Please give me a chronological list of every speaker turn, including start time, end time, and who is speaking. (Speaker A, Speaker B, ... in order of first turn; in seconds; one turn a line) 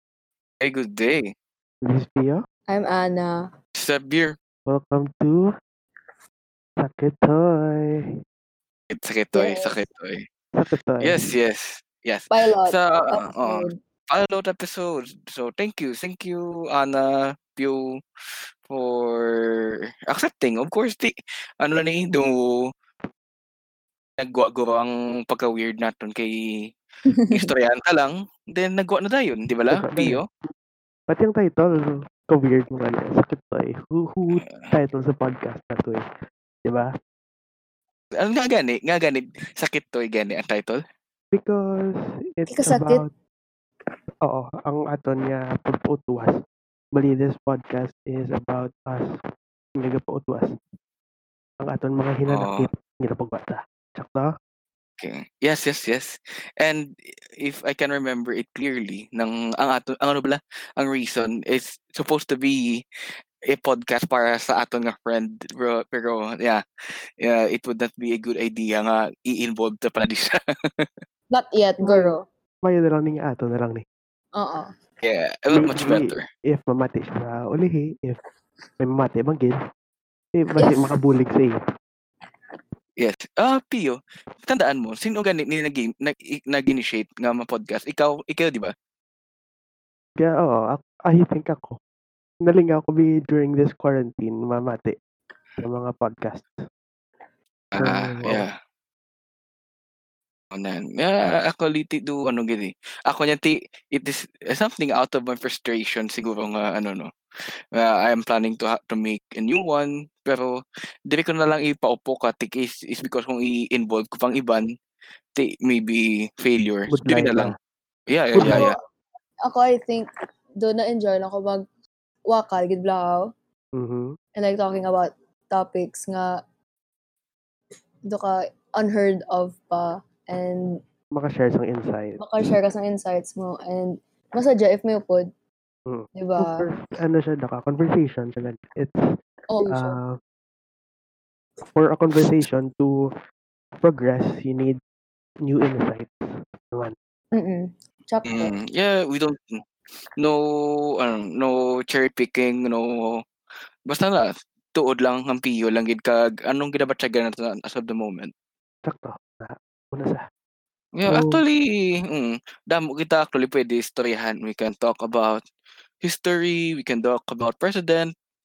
Speaker A: 0.6-1.3
Speaker B: 1.9-2.4
Speaker C: 2.7-3.5
Speaker A: 3.8-4.4
Speaker B: 4.7-5.5
Speaker B: 6.8-8.1
Speaker A: 8.9-10.2
Speaker C: 9.3-9.8
Speaker B: 10.6-11.2
Speaker A: 11.0-17.8
Speaker C: 12.3-13.8
Speaker A: 18.7-22.7
Speaker A: 24.2-26.7
Speaker C: 27.1-27.4
Speaker A: 27.3-30.2
Speaker B: 29.7-30.3
Speaker B: 31.1-36.0
Speaker A: 34.3-34.7
Speaker B: 36.6-36.9
Speaker A: 38.2-40.8
Speaker B: 41.3-43.1
Speaker C: 42.5-43.0
Speaker B: 44.2-46.4
Speaker B: 46.9-49.1
Speaker B: 49.8-50.5
Speaker B: 51.6-54.3
Speaker A: 52.3-52.7
Speaker A: 55.0-62.8
Speaker A: 63.5-66.6
Speaker A: 67.2-70.9
Speaker C: 71.3-72.2
Speaker B: 71.8-73.8
Speaker C: 74.3-74.7
Speaker A: 75.0-76.3
Speaker B: 75.5-78.2
Speaker B: 78.8-79.6
Speaker B: 80.3-81.6
Speaker C: 80.6-80.9
Speaker A: 83.0-88.7
Speaker B: 90.2-91.8
Speaker B: 92.4-94.9
Speaker B: 95.6-96.6
Speaker A: 97.7-98.5
Speaker B: 97.8-98.5
Speaker A: 100.5-107.1
Speaker A: 107.8-110.6
Speaker A: 111.1-114.7
Speaker A: 115.3-117.5
Speaker B: 116.9-117.5
Speaker A: 118.1-118.8
Speaker B: 118.3-118.7
Speaker C: 118.4-118.8
Speaker C: 119.4-120.1
Speaker C: 120.6-121.6
Speaker C: 122.2-123.3
Speaker B: 123.8-124.1
Speaker C: 124.3-126.4
Speaker C: 128.1-130.8
Speaker B: 131.1-132.3
Speaker C: 132.2-135.3
Speaker B: 135.9-139.0
Speaker C: 136.1-136.7
Speaker C: 139.5-140.0
Speaker B: 139.7-140.2
Speaker B: 141.8-143.1
Speaker B: 143.8-144.8
Speaker B: 145.4-146.1
Speaker C: 147.3-148.6
Speaker A: 148.2-149.6
Speaker A: 150.2-153.2
Speaker A: 153.9-158.3
Speaker B: 158.8-160.2
Speaker A: 160.9-165.4
Speaker B: 161.0-161.4
Speaker A: 166.0-168.1